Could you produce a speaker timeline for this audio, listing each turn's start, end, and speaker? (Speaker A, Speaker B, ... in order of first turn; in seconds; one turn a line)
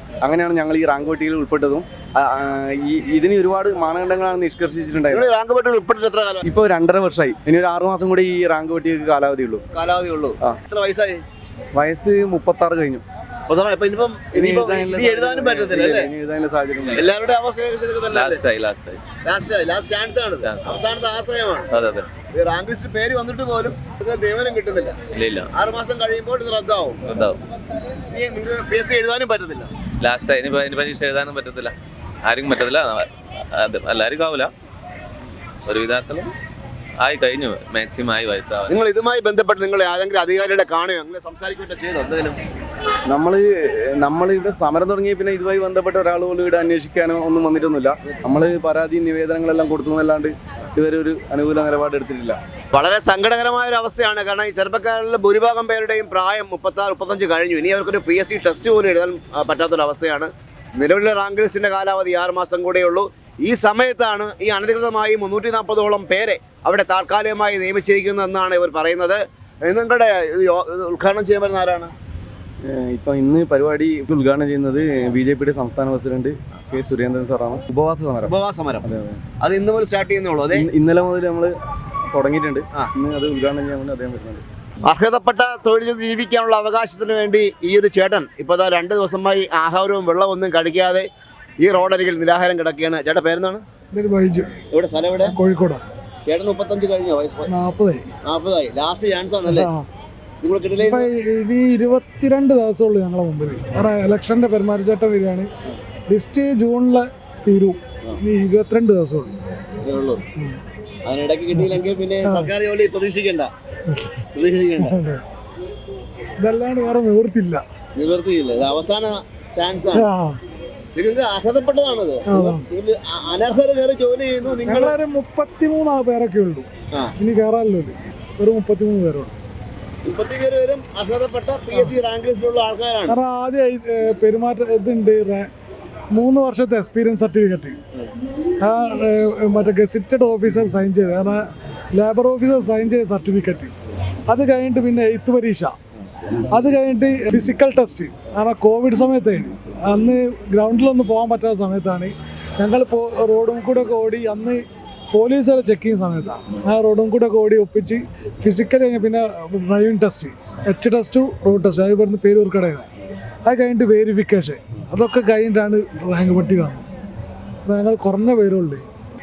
Speaker A: 0.2-5.3
Speaker B: 5.1-6.5
Speaker A: 6.4-9.6
Speaker B: 9.7-11.2
Speaker A: 11.7-13.0
Speaker B: 13.5-16.1
Speaker A: 14.3-17.1
Speaker B: 16.9-18.4
Speaker C: 18.1-19.0
Speaker B: 19.2-21.7
Speaker C: 20.4-20.8
Speaker C: 21.7-22.1
Speaker B: 22.3-24.9
Speaker C: 25.1-25.5
Speaker B: 25.5-27.0
Speaker C: 27.1-27.4
Speaker B: 28.0-29.7
Speaker C: 30.0-34.5
Speaker C: 35.7-36.3
Speaker C: 37.0-38.8
Speaker B: 38.7-42.4
Speaker A: 43.1-52.4
Speaker B: 52.7-71.9
Speaker A: 72.6-79.2
Speaker B: 78.2-78.8
Speaker B: 79.4-80.7
Speaker A: 80.5-81.5
Speaker A: 82.1-84.4
Speaker B: 84.8-91.0
Speaker B: 91.6-93.6
Speaker D: 93.9-94.5
Speaker B: 94.7-95.3
Speaker D: 95.2-95.8
Speaker B: 96.2-97.5
Speaker D: 97.5-98.1
Speaker B: 98.2-99.7
Speaker D: 99.5-99.9
Speaker B: 100.4-101.1
Speaker D: 100.8-105.5
Speaker D: 106.1-109.3
Speaker B: 109.8-110.2
Speaker B: 111.0-113.5
Speaker D: 112.2-112.5
Speaker D: 113.9-114.2
Speaker B: 114.3-115.0
Speaker D: 114.8-115.2
Speaker D: 116.4-117.6
Speaker B: 118.0-120.1
Speaker D: 119.9-120.4
Speaker B: 121.0-124.9
Speaker D: 122.3-122.6
Speaker D: 124.7-126.7
Speaker D: 127.2-129.4
Speaker B: 130.1-133.2
Speaker D: 133.1-135.5
Speaker D: 136.1-137.8
Speaker D: 138.6-141.4
Speaker D: 141.9-143.7
Speaker D: 144.3-145.8
Speaker D: 146.4-162.9
Speaker D: 163.4-166.9
Speaker D: 167.7-168.9